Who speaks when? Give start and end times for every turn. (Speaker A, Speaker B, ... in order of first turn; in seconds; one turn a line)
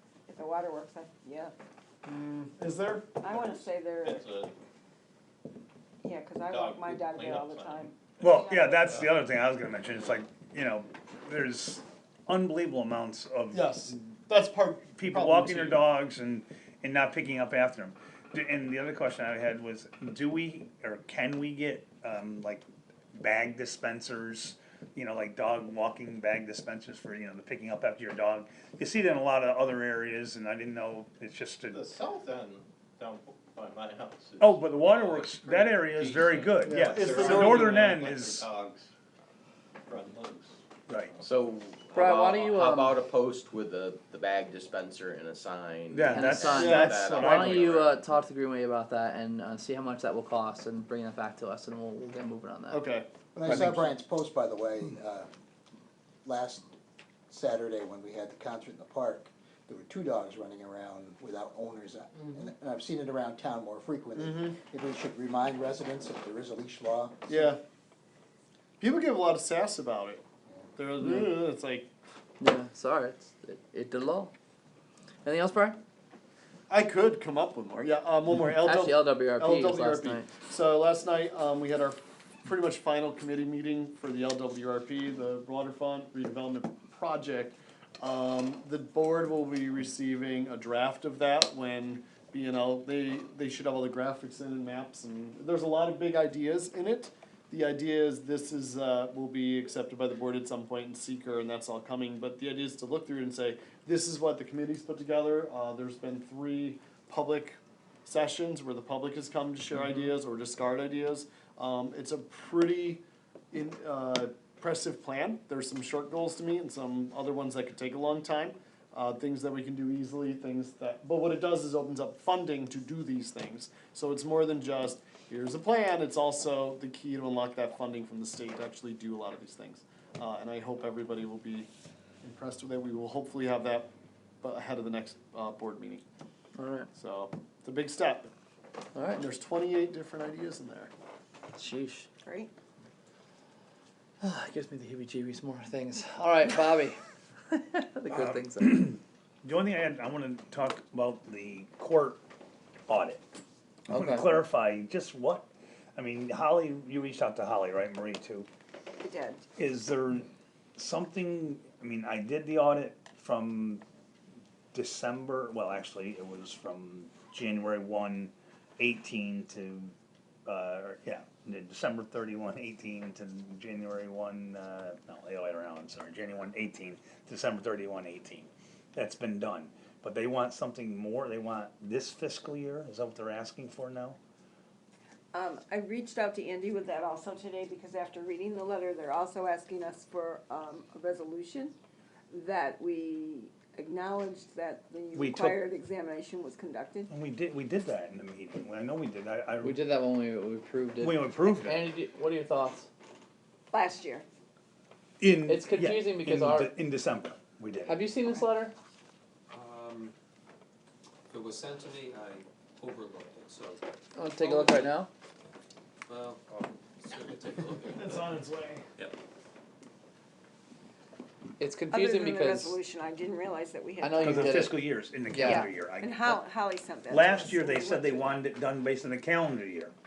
Speaker A: 0.3-1.5
Speaker B: 2.0-3.2
Speaker A: 3.2-4.2
Speaker C: 3.3-4.5
Speaker A: 6.0-9.0
Speaker C: 6.4-8.2
Speaker D: 8.2-14.0
Speaker B: 13.5-15.8
Speaker D: 15.0-22.6
Speaker D: 23.2-31.9
Speaker C: 31.7-38.9
Speaker D: 34.4-38.5
Speaker B: 36.6-38.0
Speaker C: 39.9-40.5
Speaker D: 40.9-41.2
Speaker C: 41.1-41.4
Speaker E: 41.2-47.9
Speaker F: 41.9-43.0
Speaker D: 45.9-47.9
Speaker F: 46.1-52.8
Speaker B: 46.5-47.5
Speaker B: 52.7-53.1
Speaker G: 53.3-55.3
Speaker D: 53.5-53.9
Speaker G: 56.2-56.7
Speaker G: 57.3-67.2
Speaker B: 64.2-64.6
Speaker B: 67.3-67.6
Speaker B: 68.8-70.2
Speaker B: 70.8-71.9
Speaker F: 71.0-71.3
Speaker F: 72.4-74.3
Speaker F: 75.2-75.8
Speaker B: 76.7-131.7
Speaker F: 78.5-80.3
Speaker B: 132.2-133.9
Speaker B: 134.4-136.0
Speaker F: 136.6-136.9
Speaker B: 136.9-138.3
Speaker F: 138.9-139.2
Speaker B: 139.1-140.9
Speaker F: 141.5-142.1
Speaker A: 142.2-142.5
Speaker F: 144.2-147.0
Speaker F: 147.5-148.9
Speaker D: 148.1-152.2
Speaker D: 152.9-153.2
Speaker F: 153.9-154.4
Speaker D: 153.9-158.5
Speaker A: 159.0-159.4
Speaker D: 159.6-163.8
Speaker D: 164.7-169.9
Speaker D: 170.5-184.2
Speaker A: 185.3-191.7
Speaker A: 192.3-197.1
Speaker D: 195.1-195.6
Speaker D: 197.1-199.8
Speaker F: 199.6-202.9
Speaker D: 201.0-201.9
Speaker A: 203.7-204.2
Speaker D: 205.2-208.0
Speaker F: 205.4-206.7
Speaker F: 207.8-208.7
Speaker H: 209.5-210.1
Speaker H: 211.3-215.0
Speaker F: 214.2-215.1
Speaker H: 216.1-218.3
Speaker B: 217.9-218.8
Speaker F: 221.6-222.8
Speaker A: 221.9-224.7
Speaker F: 224.0-225.7
Speaker D: 224.2-226.4
Speaker A: 225.4-228.5
Speaker D: 227.1-229.9